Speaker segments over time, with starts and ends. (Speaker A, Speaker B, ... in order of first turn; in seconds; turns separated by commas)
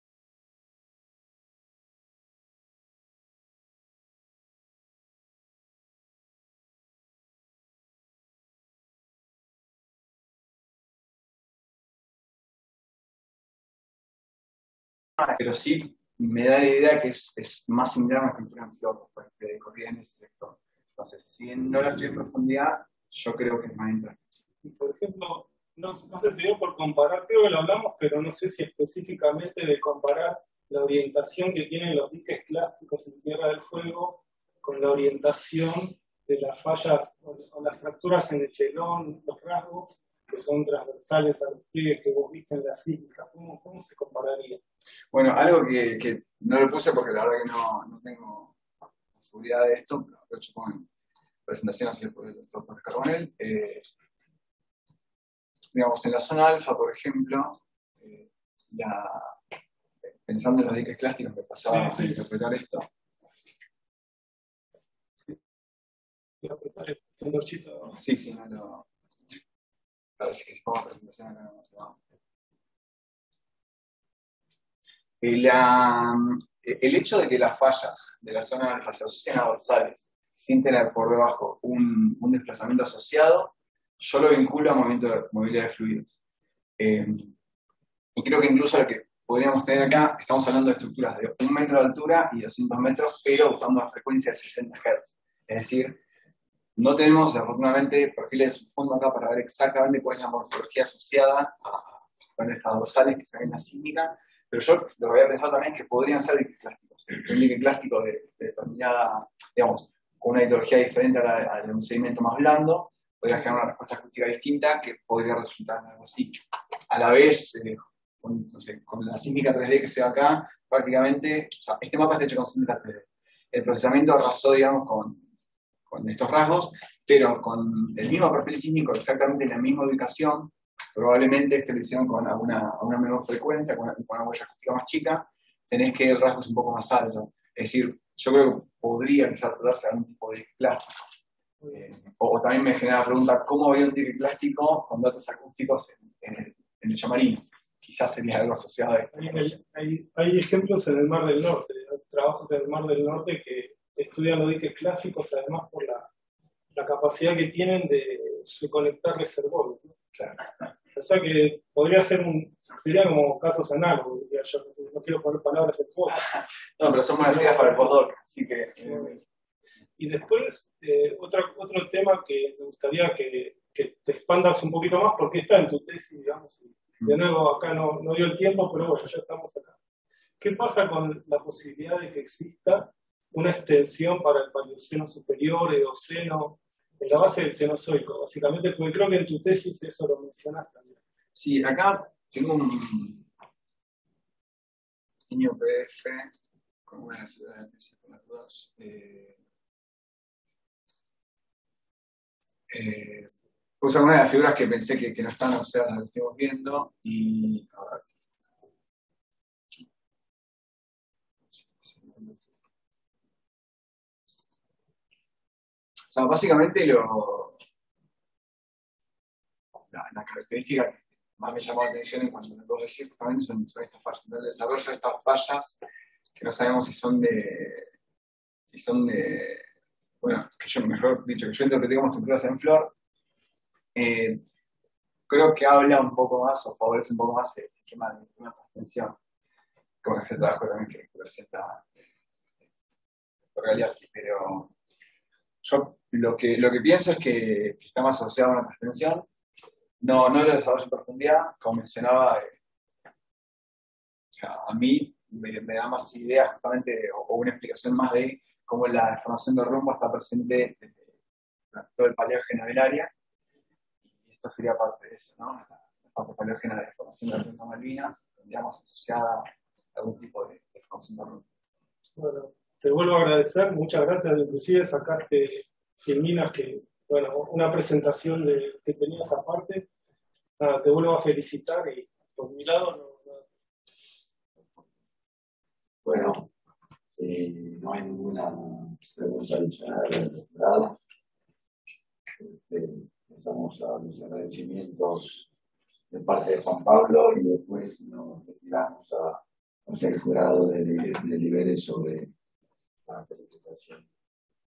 Speaker A: 15.3-24.2, Speaker B: 24.6-44.6, Speaker A: 45.1-48.5, Speaker A: 49.2-50.9, Speaker A: 51.5-53.8, Speaker A: 55.7-59.4, Speaker A: 60.2-62.9, Speaker B: 61.6-62.2, Speaker B: 66.4-67.9, Speaker A: 67.9-68.9, Speaker A: 70.2-72.0, Speaker A: 75.2-86.1, Speaker A: 86.8-87.3, Speaker A: 88.2-96.0, Speaker A: 96.8-125.2, Speaker A: 125.9-141.0, Speaker A: 141.7-149.6, Speaker B: 149.1-156.1, Speaker B: 156.7-159.9, Speaker A: 160.1-160.4, Speaker B: 160.9-166.2, Speaker A: 166.1-169.2, Speaker B: 167.2-167.9, Speaker B: 168.8-169.1, Speaker B: 170.0-179.8, Speaker B: 180.4-191.0, Speaker A: 191.3-193.2, Speaker A: 195.3-196.3, Speaker A: 196.9-199.3, Speaker A: 202.7-208.1, Speaker A: 211.5-212.5, Speaker A: 216.1-217.6, Speaker A: 219.9-225.8, Speaker A: 226.4-227.9, Speaker A: 228.7-229.7, Speaker A: 230.2-232.9, Speaker A: 233.9-234.4, Speaker A: 235.3-239.2, Speaker A: 240.0-241.8, Speaker A: 243.5-244.7, Speaker A: 245.6-249.2, Speaker A: 250.0-252.6, Speaker A: 254.3-261.1, Speaker A: 261.7-263.1, Speaker A: 264.2-271.4, Speaker B: 272.2-279.9, Speaker B: 280.6-283.4, Speaker C: 286.0-286.5, Speaker C: 287.1-291.0, Speaker C: 292.4-295.5, Speaker C: 296.1-302.3, Speaker C: 303.1-304.1